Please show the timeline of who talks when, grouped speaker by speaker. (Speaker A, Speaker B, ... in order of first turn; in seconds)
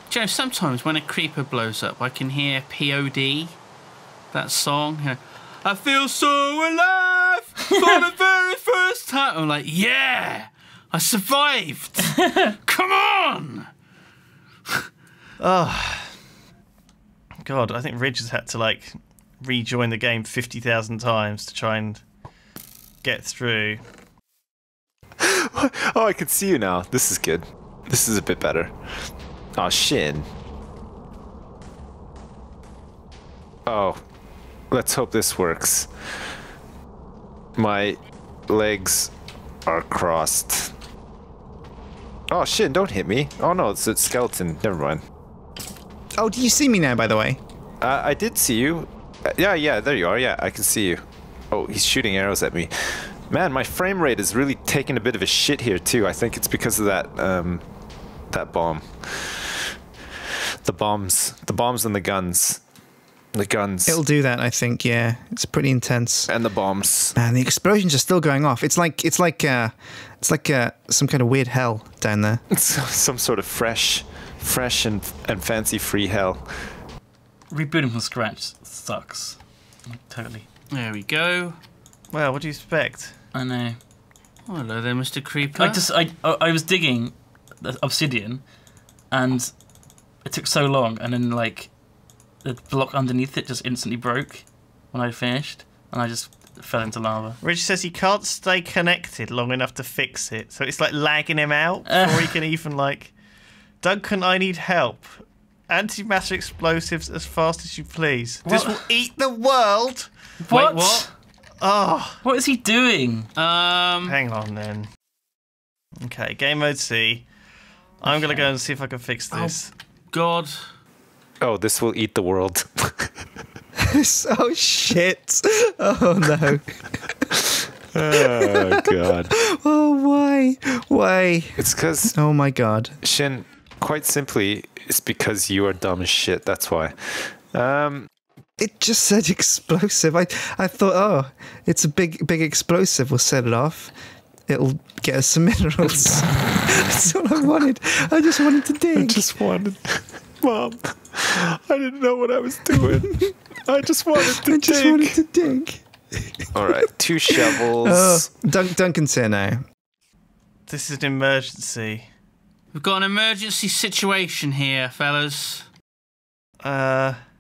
Speaker A: 0.1-3.6, 4.3-13.7, 80.7-81.6, 84.5-85.8, 110.4-111.1, 113.4-114.2, 119.3-119.6, 120.1-120.6, 162.7-165.7
Speaker B: 15.4-16.1, 17.4-22.0, 23.0-23.8, 82.1-83.1, 97.4-103.1, 103.8-110.1, 111.6-112.2, 114.1-114.9, 116.0-117.3, 118.0-119.7, 160.7-162.1, 166.6-167.2
Speaker C: 25.2-28.7, 29.6-30.3, 33.7-34.0, 34.7-35.9, 37.6-39.1, 39.7-40.7, 42.3-45.0, 47.8-57.6, 58.3-59.6, 60.6-62.6, 63.3-64.0, 66.3-67.2, 72.5-76.7, 121.4-123.1, 127.9-129.3, 131.6-132.2, 133.0-138.1, 148.9-155.2, 156.5-158.3
Speaker D: 46.2-47.4, 63.9-66.3, 67.2-72.4, 123.8-127.4, 128.1-133.0, 138.6-143.9, 144.5-149.2, 152.7-153.3, 154.2-159.6
Speaker E: 77.5-80.5, 83.3-83.8, 85.6-88.5, 89.1-89.5, 90.2-91.7, 92.4-97.4, 101.9-102.4, 108.5-108.8, 110.5-111.1, 112.2-113.3